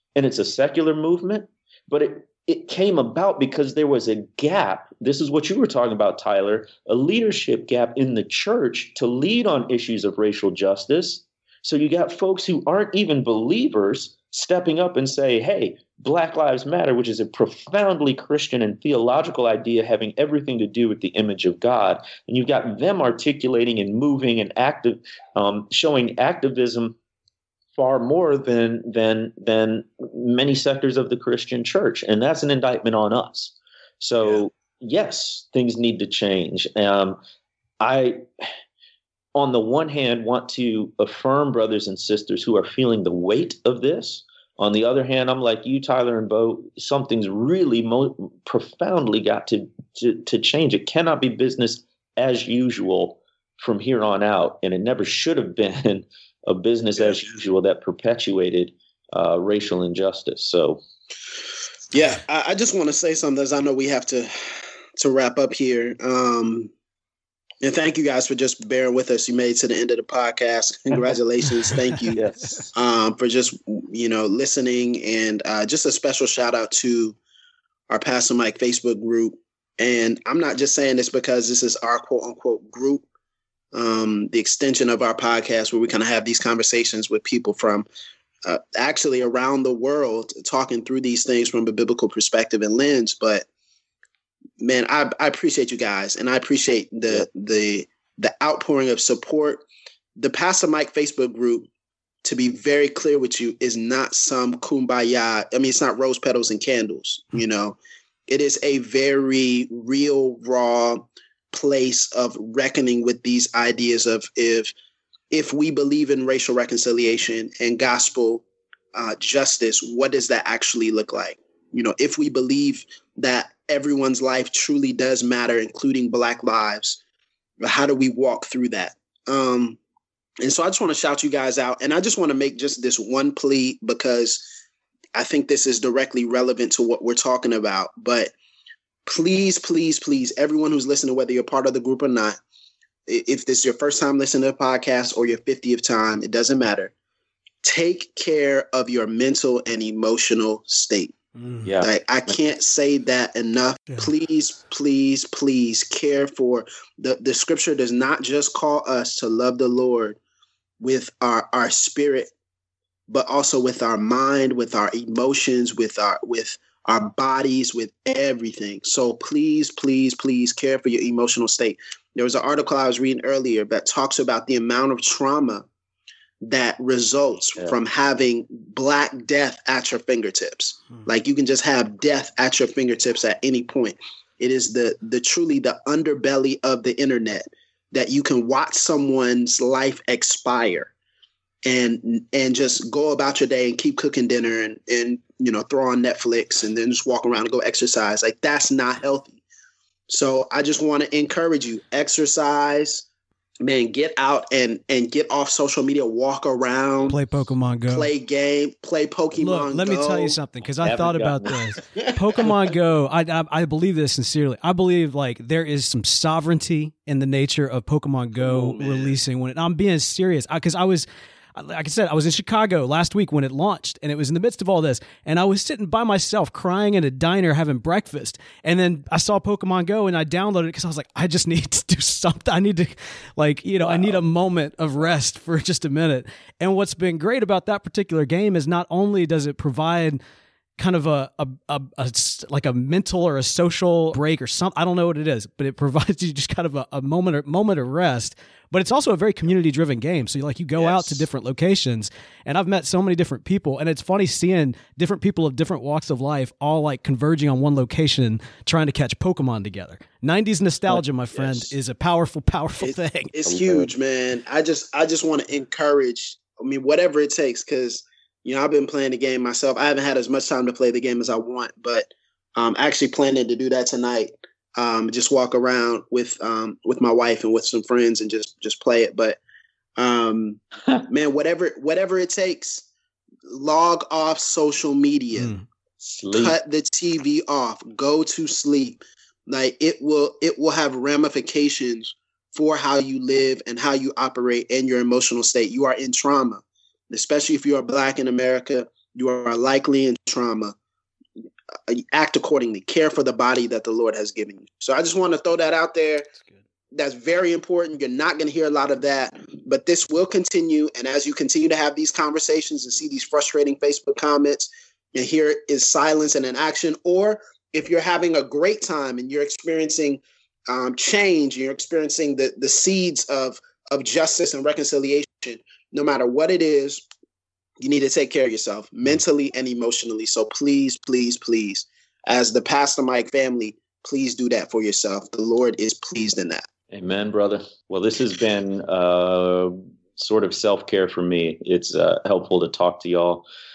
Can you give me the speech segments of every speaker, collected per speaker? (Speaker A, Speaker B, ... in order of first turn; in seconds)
Speaker A: 0.2-27.0, 27.8-37.2, 37.8-38.2, 39.4-60.8, 72.1-72.7, 151.6-152.3, 210.8-211.7, 233.9-234.1, 260.9-261.6, 263.4-263.9, 286.0-286.6, 336.9-343.5
Speaker B: 61.9-66.7, 67.6-72.2, 72.8-77.2, 77.9-83.0, 83.7-87.9, 88.5-93.5, 94.6-99.7, 100.2-101.7, 102.2-107.8, 108.3-114.7, 115.3-127.0, 127.6-129.8, 130.4-134.4, 135.2-138.3, 139.1-142.4, 143.1-146.9, 147.6-151.2, 151.8-160.2, 160.8-162.3, 163.1-175.7, 176.4-190.9, 191.7-199.4, 200.1-203.1, 203.6-207.2, 207.9-210.4, 218.4-219.2, 250.8-251.2, 262.8-279.4, 280.0-282.9, 283.5-285.5, 286.3-300.8, 301.9-306.3, 306.9-327.1, 327.8-336.7
Speaker C: 151.4-151.7, 207.1-208.1, 209.4-240.2, 240.8-263.3, 285.4-285.7